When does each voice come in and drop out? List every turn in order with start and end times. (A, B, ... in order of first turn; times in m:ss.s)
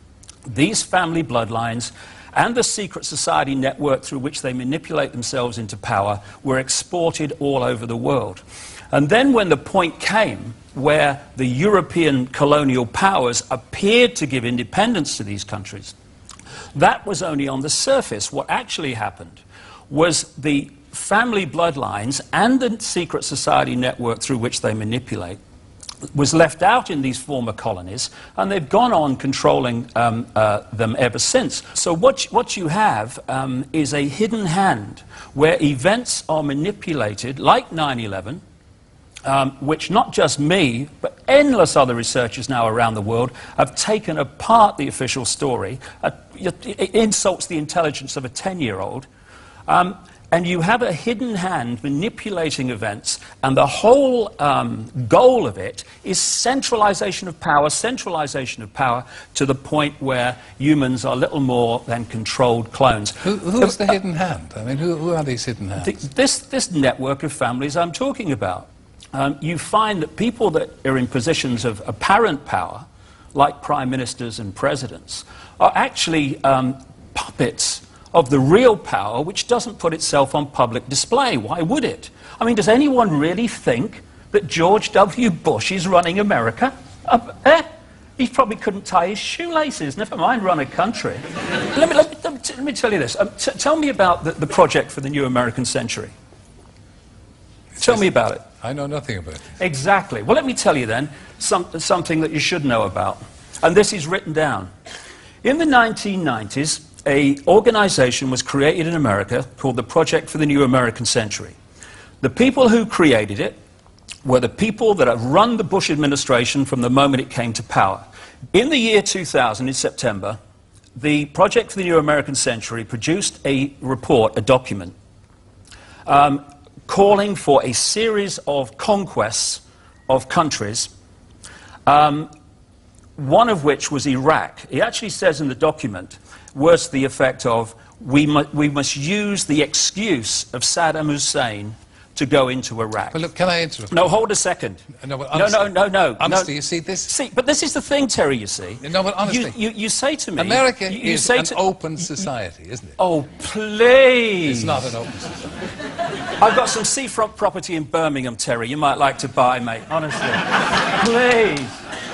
0:00.5-0:15.9 A
0:16.7-0:25.4 A
0:26.1-0:38.4 A
0:39.2-0:49.1 A
0:49.7-1:04.0 A
1:03.2-1:06.0 B
1:05.8-1:36.1 A
1:37.8-1:39.5 B
1:37.8-1:38.4 A
1:39.6-1:44.7 A
1:45.4-1:51.6 A
1:52.2-1:53.6 A
1:54.2-2:00.4 A
2:01.0-2:04.9 A
2:06.0-2:10.9 A
2:11.8-2:12.3 A
2:13.2-2:23.2 A
2:23.1-2:24.2 B
2:23.9-2:26.5 A
2:25.0-2:27.1 B
2:27.1-2:32.2 A
2:28.8-2:29.6 B
2:30.4-2:33.0 B
2:33.0-2:34.9 A
2:34.4-2:35.6 B
2:36.4-2:41.8 A